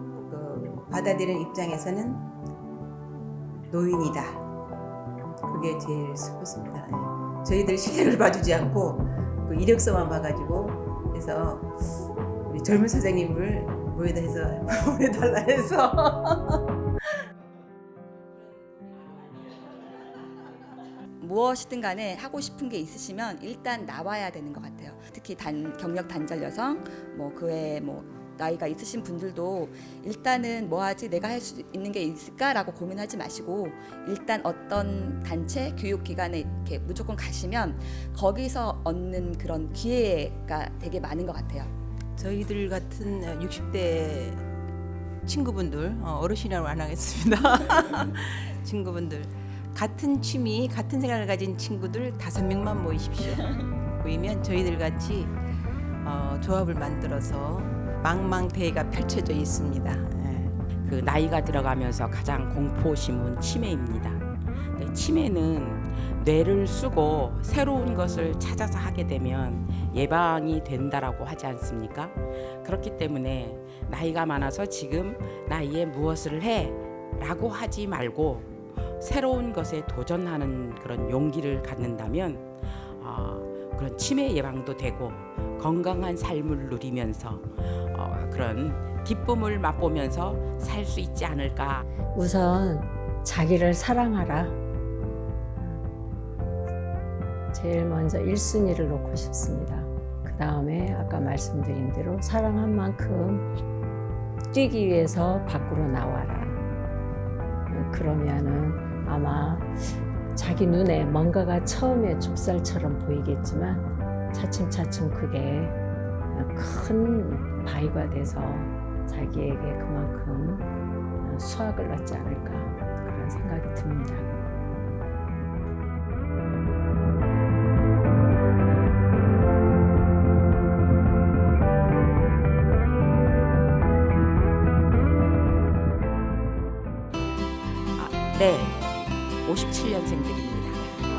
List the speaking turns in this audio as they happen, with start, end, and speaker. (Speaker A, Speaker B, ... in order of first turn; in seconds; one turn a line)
Speaker A: 0.2-2.3
Speaker A: 3.7-4.4
Speaker A: 5.5-11.7
Speaker A: 12.5-16.6
Speaker B: 21.2-41.7
Speaker A: 42.2-44.5
Speaker A: 45.2-55.4
Speaker A: 56.0-60.6
Speaker C: 60.8-91.9
Speaker D: 92.1-94.6
Speaker D: 95.6-95.8
Speaker D: 97.5-103.5
Speaker D: 104.5-106.6
Speaker D: 107.7-115.8
Speaker D: 116.3-120.7
Speaker D: 121.2-124.3
Speaker C: 138.0-138.9
Speaker C: 139.4-140.9